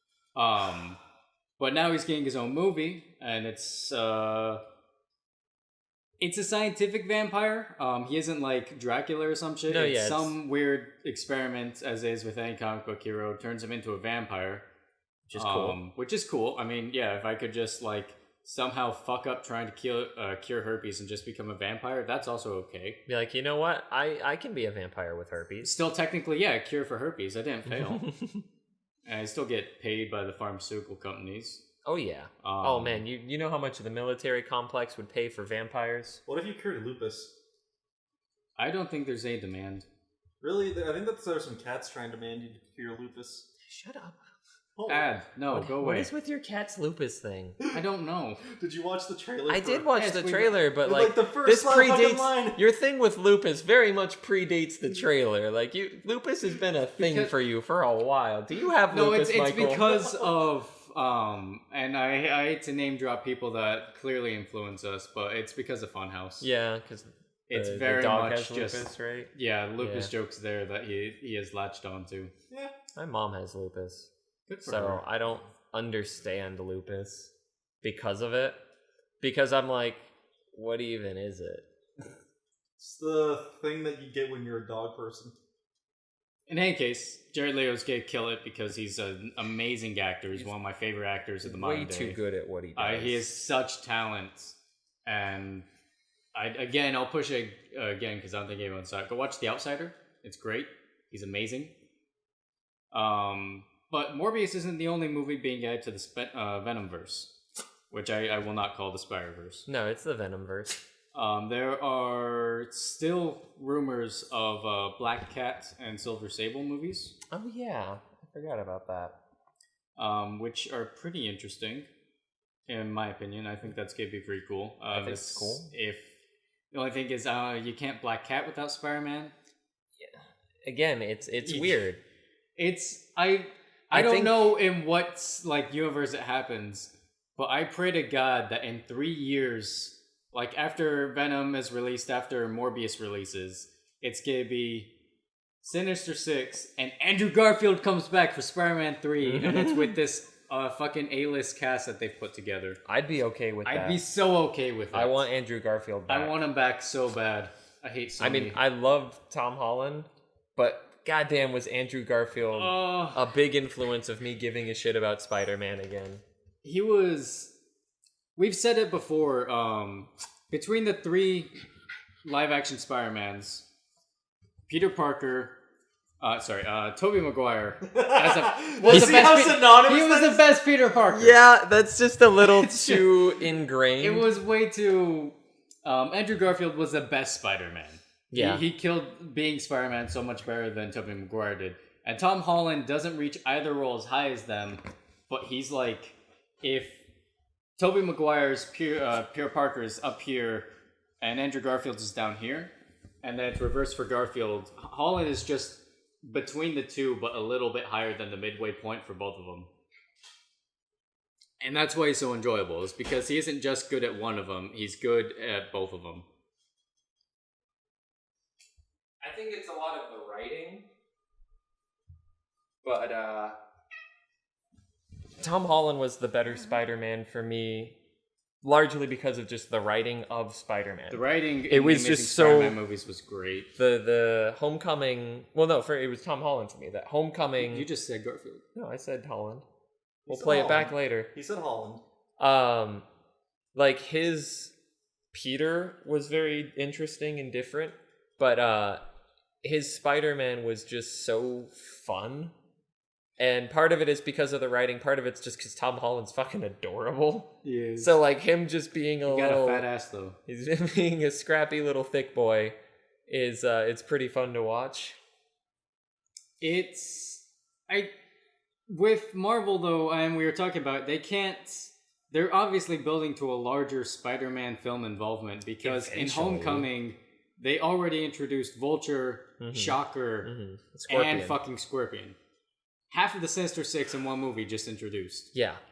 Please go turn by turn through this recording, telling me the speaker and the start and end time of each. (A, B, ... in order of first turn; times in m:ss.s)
0:00.4-0:01.0 A
0:01.6-0:04.6 A
0:06.2-0:14.6 A
0:09.7-0:10.4 B
0:15.3-0:15.8 B
0:15.4-0:23.0 A
0:23.1-0:25.8 B
0:25.6-0:28.0 A
0:27.7-0:28.4 B
0:29.1-0:31.6 A
0:31.8-0:36.2 B
0:32.4-0:33.0 A
0:36.3-0:37.3 C
0:38.6-0:39.8 A
0:40.4-0:43.5 C
0:43.6-0:44.2 B
0:44.8-0:45.1 C
0:44.9-0:46.1 A
0:45.5-0:47.6 B
0:47.7-0:48.4 A
0:48.5-0:49.9 C
0:49.5-0:59.9 B
0:49.9-0:50.6 A
0:50.8-0:52.6 C
0:57.0-0:57.3 A
0:58.9-1:06.5 A
0:59.6-1:00.4 C
1:06.4-1:10.1 B
1:07.5-1:12.3 A
1:13.0-1:14.1 B
1:14.5-1:15.0 A
1:14.6-1:17.3 B
1:17.8-1:18.6 B
1:19.2-1:20.0 B
1:20.5-1:21.6 B
1:22.8-1:25.4 C
1:26.5-1:32.2 A
1:31.4-1:33.3 B
1:32.8-1:35.7 A
1:36.4-1:41.7 A
1:42.9-1:47.3 A
1:47.9-1:49.7 A
1:49.7-1:50.8 B
1:51.1-1:57.2 A
1:57.3-1:59.2 B
2:00.0-2:01.9 A
2:02.7-2:06.2 A
2:04.9-2:05.7 B
2:06.7-2:09.3 A
2:10.0-2:12.0 B
2:11.4-2:11.8 A
2:12.6-2:24.9 A
2:13.9-2:14.5 B
2:25.6-2:32.8 A
2:29.2-2:30.0 B
2:32.8-2:34.0 B
2:33.6-2:35.2 A
2:34.9-2:36.4 B
2:36.1-2:38.6 A
2:38.2-2:46.2 B
2:42.6-2:43.3 A
2:46.6-2:47.5 A
2:48.4-2:51.5 A
2:52.2-2:53.6 A
2:54.7-2:55.6 A
2:56.2-3:01.4 A
2:57.9-3:00.4 C
2:58.9-2:59.3 B
3:01.1-3:04.3 B
3:02.4-3:03.2 A
3:04.0-3:17.0 A
3:08.3-3:08.6 B
3:17.8-3:20.7 A
3:21.2-3:22.7 A
3:23.2-3:29.7 A
3:31.6-3:36.3 A
3:39.2-3:40.9 B
3:42.8-3:43.6 B
3:45.4-3:48.0 B
3:48.6-3:52.8 B
3:51.1-3:53.7 A
3:53.8-3:57.9 B
3:57.6-3:58.6 A
3:58.8-3:59.6 B
4:00.3-4:02.0 C
4:00.3-4:01.3 B
4:02.4-4:03.0 B
4:03.8-4:04.7 B
4:05.3-4:09.0 B
4:09.6-4:12.5 B
4:13.4-4:19.9 B
4:17.6-4:18.2 A
4:19.3-4:20.4 A
4:20.5-4:22.8 B
4:23.3-4:25.2 B
4:26.6-4:28.1 A
4:28.9-4:40.5 A
4:35.8-4:36.9 B
4:39.6-4:41.6 B
4:41.1-4:42.4 A
4:43.1-4:45.5 A
4:45.5-4:45.8 B